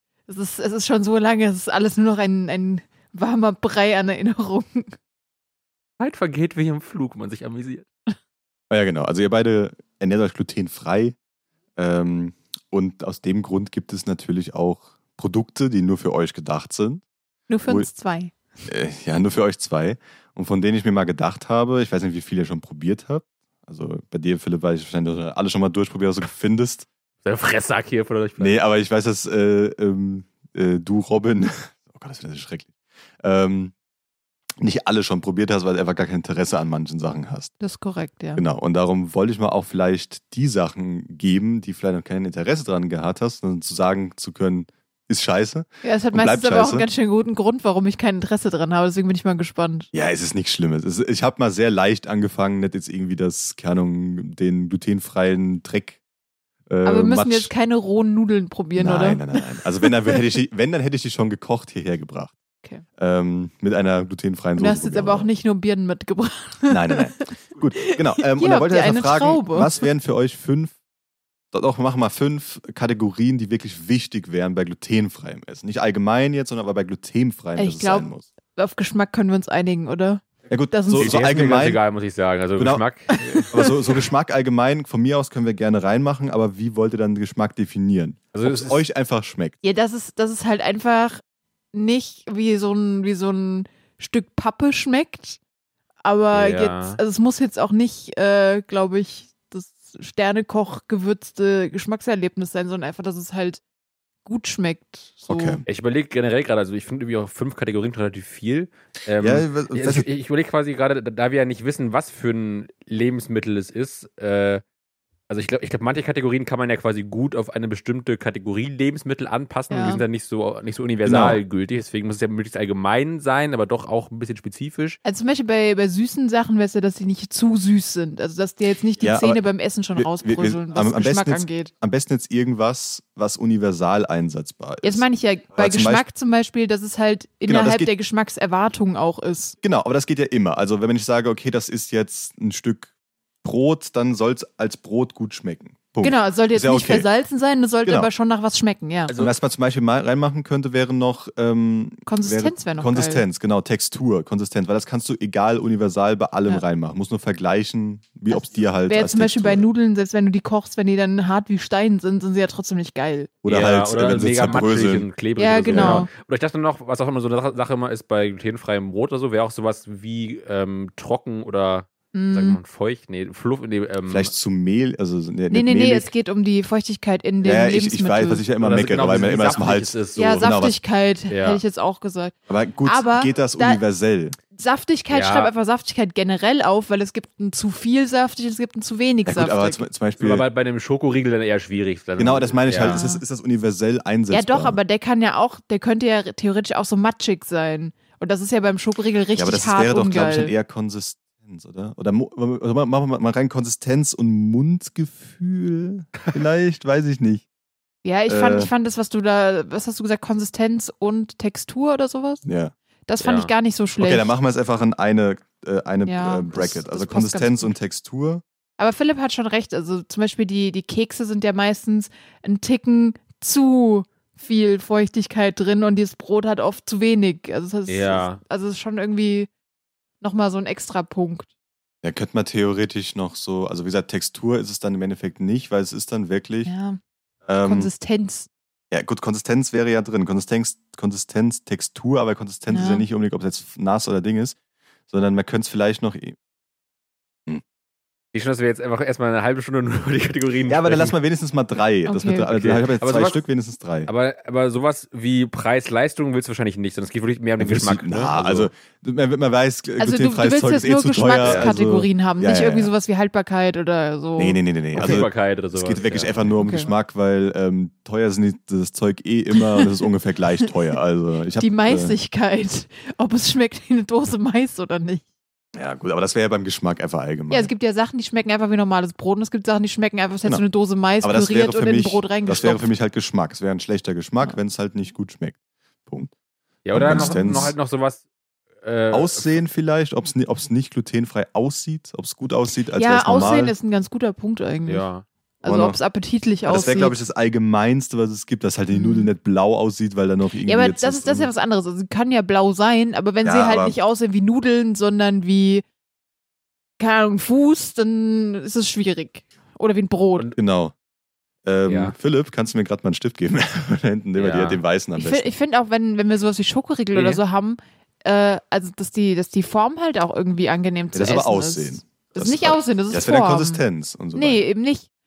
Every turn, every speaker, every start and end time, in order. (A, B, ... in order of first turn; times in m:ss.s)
0:00.3-0:05.0 A
0:06.0-0:07.9 B
0:08.7-0:11.2 C
0:11.8-0:17.0 C
0:17.5-0:18.3 A
0:18.6-0:26.9 C
0:27.2-0:28.6 B
0:28.4-0:33.7 C
0:34.6-0:37.5 C
0:37.6-0:38.4 A
0:38.4-0:46.9 C
0:45.8-0:49.9 A
0:49.9-0:56.0 C
0:56.7-0:57.5 C
0:56.8-0:59.9 A
0:58.8-1:02.3 C
1:03.0-1:05.3 C
1:04.6-1:09.7 A
1:06.7-1:10.7 C
1:11.5-1:18.3 C
1:17.6-1:21.2 A
1:20.5-1:21.8 C
1:21.0-1:23.5 B
1:22.6-1:22.8 C
1:23.1-1:23.7 A
1:23.5-1:29.5 C
1:28.3-1:28.8 B
1:29.6-1:31.2 A
1:31.7-1:35.4 A
1:36.0-1:43.6 A
1:36.3-1:37.0 B
1:44.2-1:45.6 A
1:45.3-1:45.6 C
1:45.6-1:54.6 B
1:49.2-1:50.1 C
1:55.3-2:05.0 B
1:59.7-2:00.0 A
2:01.0-2:01.4 C
2:05.0-2:11.7 A
2:09.0-2:16.0 C
2:14.8-2:19.5 A
2:17.4-2:17.9 C
2:19.6-2:22.9 C
2:23.4-2:27.1 C
2:26.0-2:29.1 A
2:27.8-2:28.1 C
2:29.1-2:29.3 B
2:29.2-2:39.6 C
2:32.0-2:33.2 A
2:38.3-2:43.3 A
2:43.4-2:45.1 C
2:43.4-2:54.3 B
2:45.4-2:46.1 A
2:45.7-2:46.0 C
2:52.1-2:52.6 A
2:54.1-2:56.1 C
2:55.5-2:58.4 A
2:57.4-3:00.7 C
2:58.6-3:00.5 B
3:00.2-3:02.3 A
3:01.3-3:01.6 B
3:02.5-3:04.4 C
3:02.8-3:03.8 A
3:04.5-3:09.8 A
3:05.1-3:05.5 B
3:09.2-3:10.4 C
3:10.2-3:13.0 B
3:12.2-3:14.8 C
3:12.8-3:13.2 A
3:14.3-3:20.5 A
3:19.4-3:27.4 C
3:28.0-3:32.4 A
3:28.3-3:28.7 C
3:32.4-3:32.7 C
3:33.1-3:34.3 A
3:33.2-3:33.5 B
3:34.0-3:38.4 C
3:36.0-3:37.7 A
3:38.8-3:49.5 A
3:47.9-3:48.4 B
3:50.2-3:51.5 A
3:52.0-3:56.7 C
3:56.6-3:57.0 A
3:57.5-3:57.9 C
3:57.6-3:58.5 A
3:58.9-4:04.6 C
4:02.7-4:03.0 A
4:05.1-4:06.4 C
4:08.3-4:11.1 B
4:10.7-4:14.1 C
4:12.0-4:12.5 A
4:12.5-4:13.4 B
4:14.0-4:18.7 B
4:17.6-4:22.9 C
4:20.0-4:24.6 A
4:21.4-4:21.7 B
4:24.4-4:32.2 C
4:24.9-4:26.6 B
4:26.6-4:26.9 A
4:29.5-4:29.9 A
4:31.6-4:35.2 A
4:35.7-4:37.7 C
4:37.5-4:42.8 A
4:41.2-4:45.6 C
4:46.8-4:48.2 B
4:46.9-4:47.7 C
4:47.0-4:47.4 A
4:48.8-4:49.6 B
4:49.1-4:53.7 C
4:53.0-4:55.1 A
4:54.8-4:55.2 B
4:55.6-4:57.2 A
4:55.6-4:56.0 C
4:56.6-5:01.5 C
4:58.9-4:59.3 A
5:00.6-5:05.8 A
5:03.4-5:04.0 C
5:07.0-5:10.5 A
5:10.6-5:10.9 C
5:11.6-5:15.5 C
5:11.8-5:12.1 B
5:14.4-5:14.8 B
5:15.2-5:23.8 A
5:17.1-5:17.4 B
5:21.1-5:24.6 C
5:24.3-5:25.1 A